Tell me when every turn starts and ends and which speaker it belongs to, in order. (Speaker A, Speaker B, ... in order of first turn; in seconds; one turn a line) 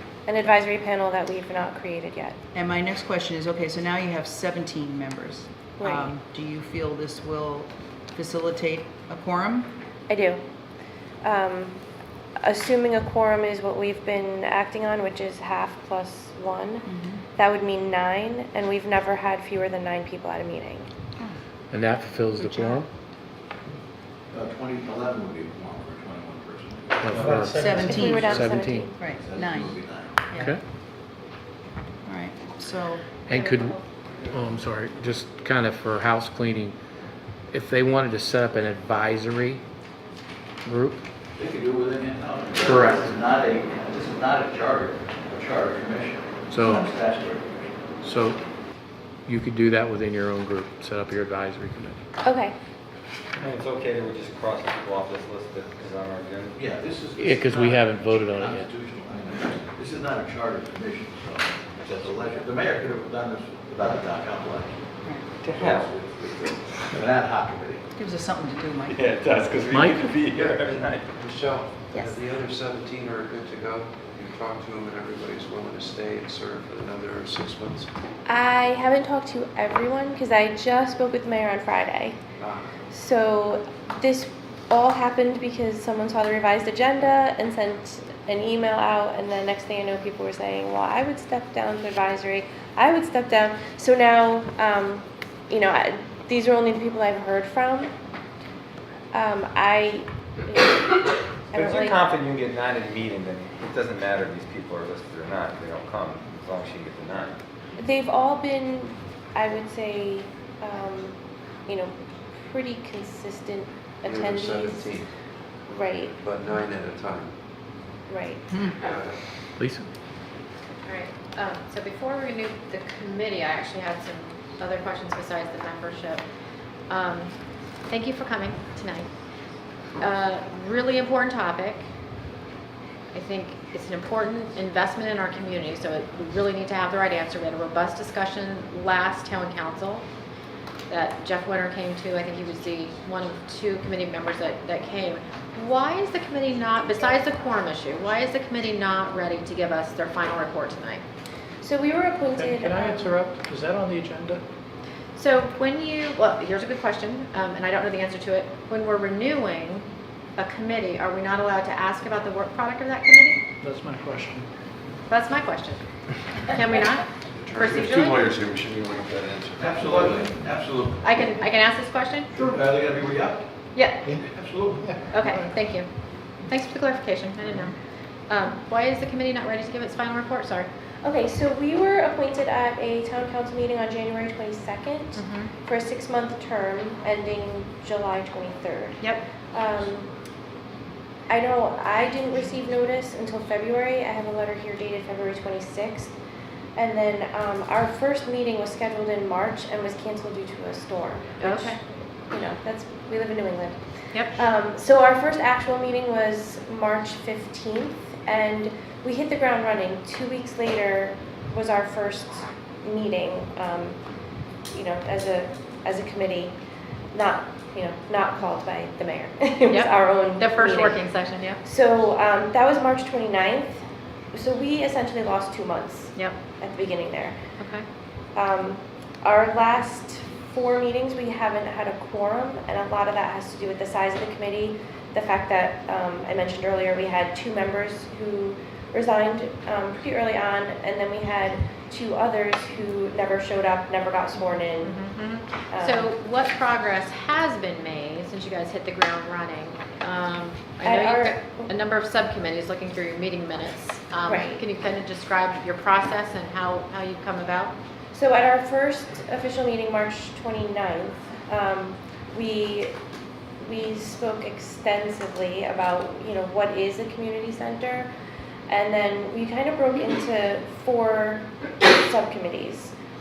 Speaker A: 0.3-2.4
Speaker B: 2.5-9.7
Speaker A: 5.8-6.1
Speaker A: 10.1-10.4
Speaker A: 11.2-11.8
Speaker A: 12.4-20.9
Speaker B: 16.9-17.2
Speaker C: 21.7-22.9
Speaker B: 22.4-22.8
Speaker D: 24.3-27.5
Speaker C: 27.0-28.9
Speaker B: 27.2-28.3
Speaker A: 27.8-29.0
Speaker B: 29.0-30.5
Speaker D: 29.0-30.2
Speaker C: 30.3-30.6
Speaker B: 32.0-33.0
Speaker C: 33.3-33.8
Speaker E: 33.3-33.8
Speaker C: 34.3-36.8
Speaker C: 37.5-39.6
Speaker C: 40.7-41.0
Speaker D: 41.4-47.7
Speaker C: 42.6-43.1
Speaker C: 46.5-46.9
Speaker C: 48.0-48.4
Speaker C: 49.3-52.0
Speaker A: 52.2-52.5
Speaker F: 53.4-56.6
Speaker D: 56.5-64.8
Speaker C: 57.2-58.7
Speaker D: 65.4-67.8
Speaker F: 65.5-66.5
Speaker B: 68.0-69.0
Speaker F: 68.9-71.1
Speaker C: 69.7-70.1
Speaker G: 71.2-77.9
Speaker A: 78.2-82.2
Speaker G: 82.4-82.7
Speaker A: 82.9-97.9
Speaker A: 99.1-102.0
Speaker F: 101.5-107.4
Speaker A: 107.8-115.0
Speaker G: 114.1-115.1
Speaker A: 115.7-116.1
Speaker G: 116.2-117.3
Speaker A: 118.1-118.6
Speaker G: 118.8-119.2
Speaker C: 119.6-119.9
Speaker E: 120.9-126.2
Speaker E: 126.9-127.3
Speaker E: 127.9-129.1
Speaker E: 130.0-131.8
Speaker E: 133.1-140.1
Speaker E: 140.9-151.0
Speaker A: 151.6-153.2
Speaker H: 152.3-154.4
Speaker E: 155.2-163.4
Speaker H: 163.6-164.4
Speaker E: 165.1-165.8
Speaker E: 166.5-168.4
Speaker G: 167.4-170.2
Speaker D: 169.6-171.1
Speaker E: 171.0-172.3
Speaker D: 172.3-173.5
Speaker E: 173.8-174.0
Speaker D: 174.1-175.1
Speaker E: 175.1-175.9
Speaker H: 175.2-175.5
Speaker E: 176.4-177.8
Speaker E: 178.3-180.7
Speaker A: 181.0-190.1
Speaker E: 185.1-185.5
Speaker A: 191.3-196.1
Speaker A: 196.8-201.8
Speaker E: 201.4-201.8
Speaker A: 202.3-214.0
Speaker E: 204.1-204.4
Speaker A: 214.7-216.5
Speaker A: 217.1-221.1
Speaker E: 219.7-221.6
Speaker A: 221.6-223.8
Speaker A: 224.3-227.4
Speaker E: 227.6-227.9
Speaker A: 228.3-245.0
Speaker E: 244.8-257.7
Speaker A: 245.7-246.1
Speaker A: 250.8-251.7
Speaker A: 254.2-254.6
Speaker A: 258.1-262.9
Speaker A: 263.6-268.1
Speaker A: 268.7-272.9